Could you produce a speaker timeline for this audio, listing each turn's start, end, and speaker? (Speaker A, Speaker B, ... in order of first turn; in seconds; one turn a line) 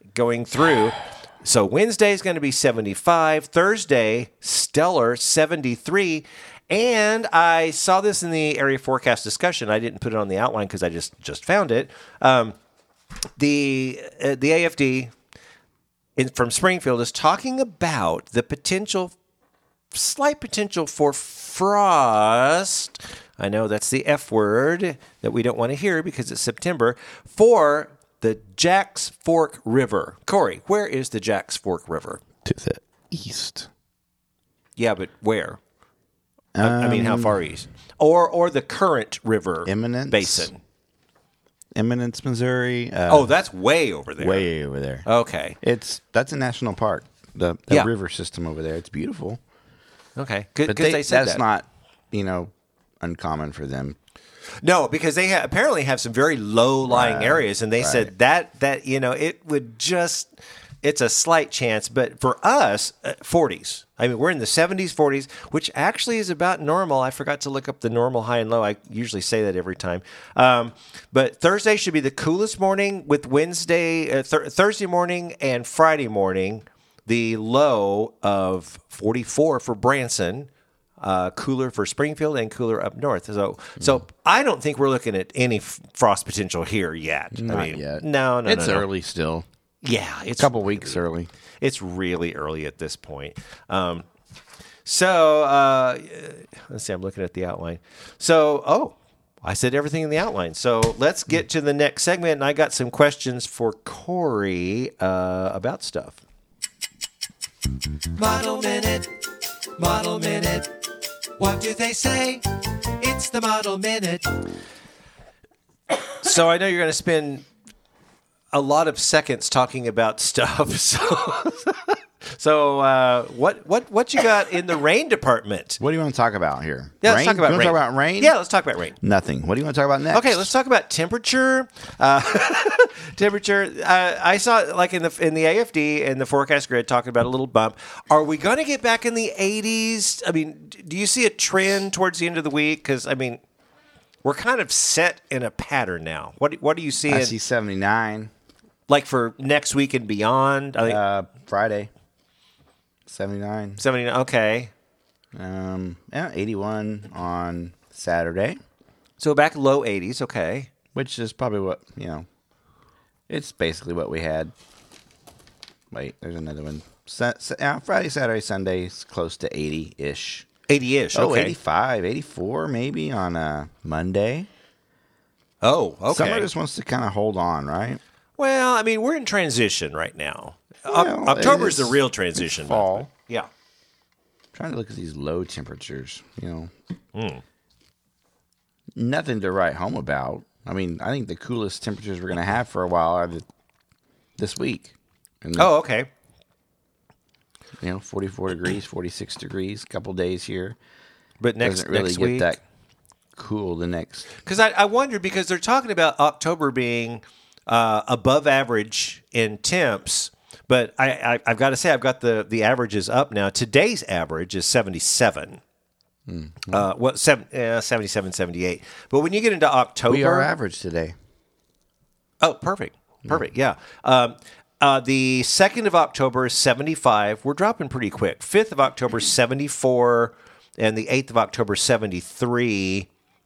Speaker A: 0.1-12.5
Speaker A: 13.4-15.1
Speaker A: 16.1-19.1
Speaker A: 19.9-32.2
Speaker B: 32.4-33.7
Speaker A: 34.8-35.6
Speaker B: 36.5-37.4
Speaker A: 36.6-40.6
Speaker B: 39.6-40.5
Speaker B: 41.7-43.3
Speaker A: 43.1-44.5
Speaker B: 44.2-45.1
Speaker A: 45.0-45.6
Speaker B: 45.6-49.4
Speaker A: 50.1-51.4
Speaker B: 50.6-54.0
Speaker A: 54.6-60.3
Speaker B: 56.9-58.1
Speaker A: 60.8-80.5
Speaker A: 81.0-88.9
Speaker B: 87.3-89.5
Speaker A: 89.8-91.0
Speaker B: 90.4-91.3
Speaker A: 91.6-94.0
Speaker A: 94.8-106.2
Speaker A: 108.1-109.2
Speaker A: 109.8-110.8
Speaker A: 111.4-114.4
Speaker A: 116.2-117.5
Speaker A: 118.5-125.8
Speaker B: 125.8-128.3
Speaker A: 127.0-128.9
Speaker B: 129.0-130.5
Speaker A: 130.1-143.4
Speaker A: 144.2-147.3
Speaker B: 147.1-148.3
Speaker A: 148.9-151.0
Speaker B: 150.8-151.9
Speaker B: 153.1-153.8
Speaker A: 153.8-154.7
Speaker B: 155.3-158.6
Speaker A: 159.2-160.7
Speaker B: 160.9-162.2
Speaker B: 163.3-164.5
Speaker B: 165.9-170.5
Speaker A: 170.7-171.6
Speaker B: 171.1-174.5
Speaker A: 175.6-176.5
Speaker B: 176.1-178.0
Speaker A: 178.4-183.5
Speaker B: 180.9-183.1
Speaker B: 184.5-186.7
Speaker A: 187.1-187.4
Speaker B: 188.9-193.4
Speaker B: 194.4-195.7
Speaker A: 195.6-196.1
Speaker B: 197.8-200.8
Speaker A: 201.4-202.6
Speaker B: 201.6-202.6
Speaker B: 203.3-204.3
Speaker A: 204.4-215.6
Speaker B: 216.3-216.8
Speaker A: 216.7-220.5
Speaker B: 220.1-221.1
Speaker A: 222.4-233.1